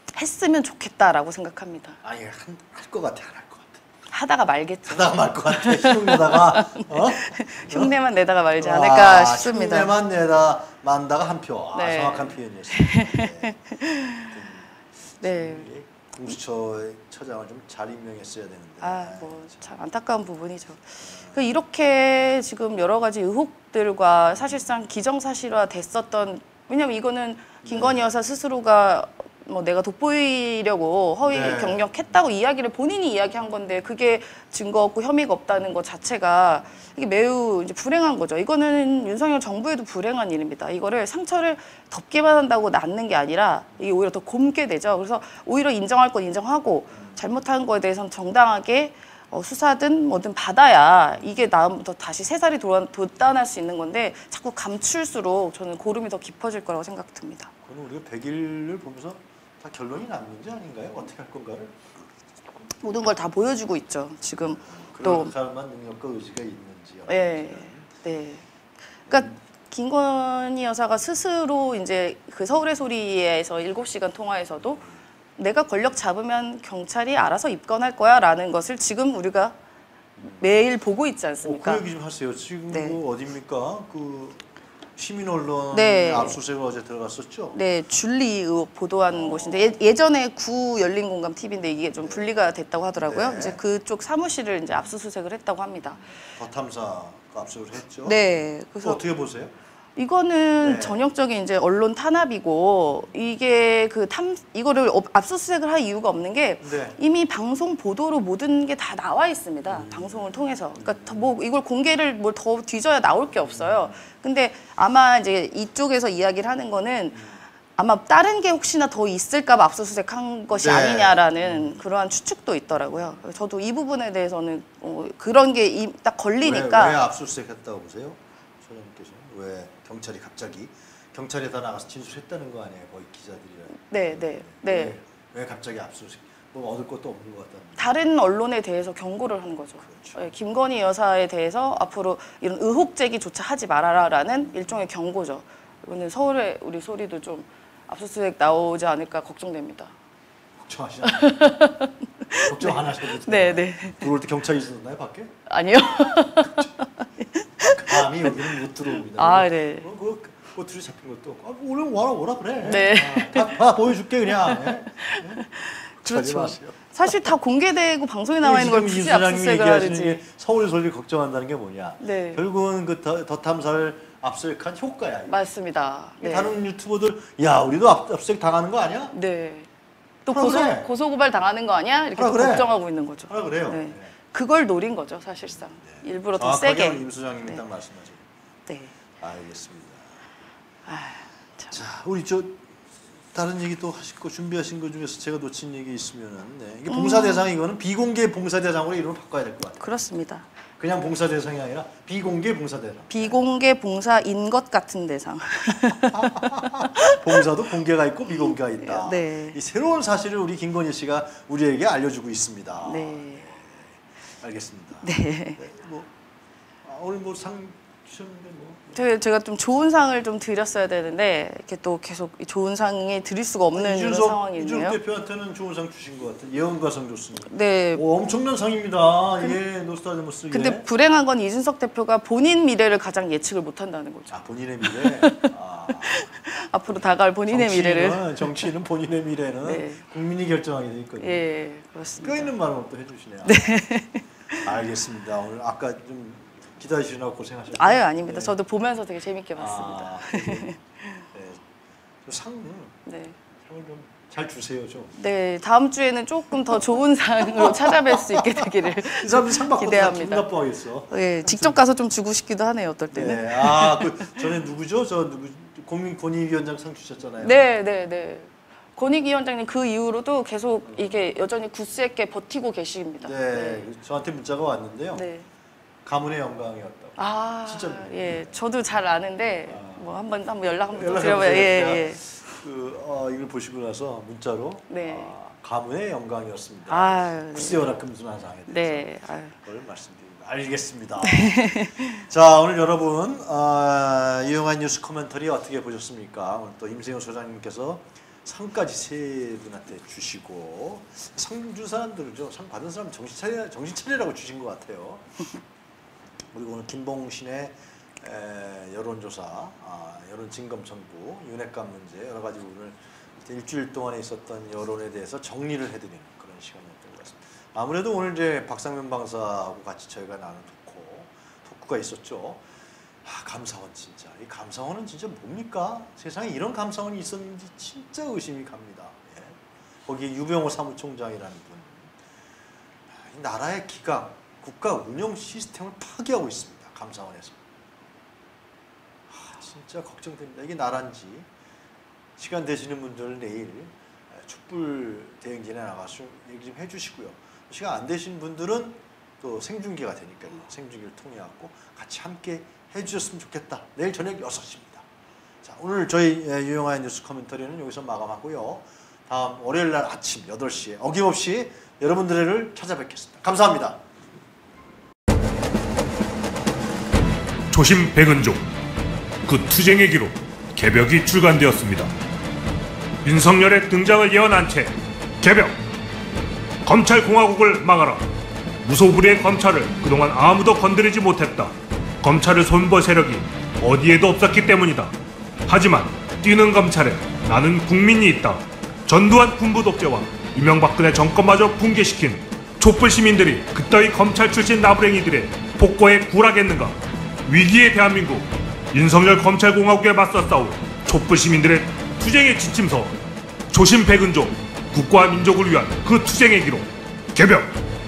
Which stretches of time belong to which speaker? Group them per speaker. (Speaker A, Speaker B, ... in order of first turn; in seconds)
Speaker A: 0.1-2.0, 4.1-9.9, 11.7-14.4, 15.2-15.7, 18.8-57.5, 62.8-65.3, 67.1-68.4, 69.1-74.8, 75.3-79.5, 80.4-81.8, 82.7-83.0, 85.7-86.4, 87.5-96.0, 98.0-99.0, 100.0-117.2, 117.8-127.0, 133.9-135.0, 137.8-149.9, 151.0-154.1, 155.5-159.9, 162.6-163.6, 164.3-170.2, 172.0-172.4, 175.3-176.6, 179.1-179.7, 180.2-187.6, 188.7-188.9, 190.8-191.7, 196.9-197.5, 199.8-200.5, 203.1-207.4, 208.3-209.6, 212.8-213.4, 215.0-215.6, 218.9-225.0, 227.5-228.0, 230.5-238.7, 239.6-240.0, 241.2-242.5, 243.4-244.7, 247.7-251.2, 253.1-253.4, 255.2-260.5, 261.1-264.4, 267.4-273.9, 275.1-275.5, 277.2-282.2, 284.9-285.3, 286.9-287.9, 288.7-289.5, 291.3-292.2
Speaker B: 2.0-3.8, 4.8-7.9, 8.6-13.5, 14.3-19.4, 21.0-21.4, 27.6-28.0, 31.2-31.9, 57.6-61.8, 64.7-67.9, 69.1-69.3, 80.2-80.5, 81.4-84.5, 85.0-87.6, 89.1-89.8, 92.0-92.3, 93.0-93.6, 96.2-98.2, 98.8-99.5, 100.6-101.0, 106.6-107.0, 109.7-111.3, 113.5-114.1, 117.1-117.4, 120.5-121.8, 126.4-137.9, 139.8-140.2, 150.6-151.3, 152.4-155.3, 157.6-165.4, 166.0-167.3, 168.4-175.4, 176.2-179.1, 180.2-180.9, 182.1-182.7, 183.3-184.1, 185.8-188.2, 189.2-190.0, 191.7-192.7, 193.3-199.9, 200.8-203.4, 206.1-216.1, 216.8-219.0, 223.7-230.8, 234.3-236.3, 237.5-241.4, 242.2-243.8, 244.6-248.5, 249.6-251.6, 252.2-253.0, 253.6-255.2, 257.5-261.8, 263.1-267.7, 270.8-271.2, 273.2-275.2, 276.0-278.7, 279.7-280.1, 280.9-305.3, 306.5-322.6, 323.2-332.1, 333.1-337.6, 339.3-341.5, 342.4-355.0, 355.6-364.0
Speaker C: 367.7-368.6, 369.4-372.1, 373.2-375.8, 376.8-378.2, 378.8-385.1, 385.7-403.1, 403.7-407.7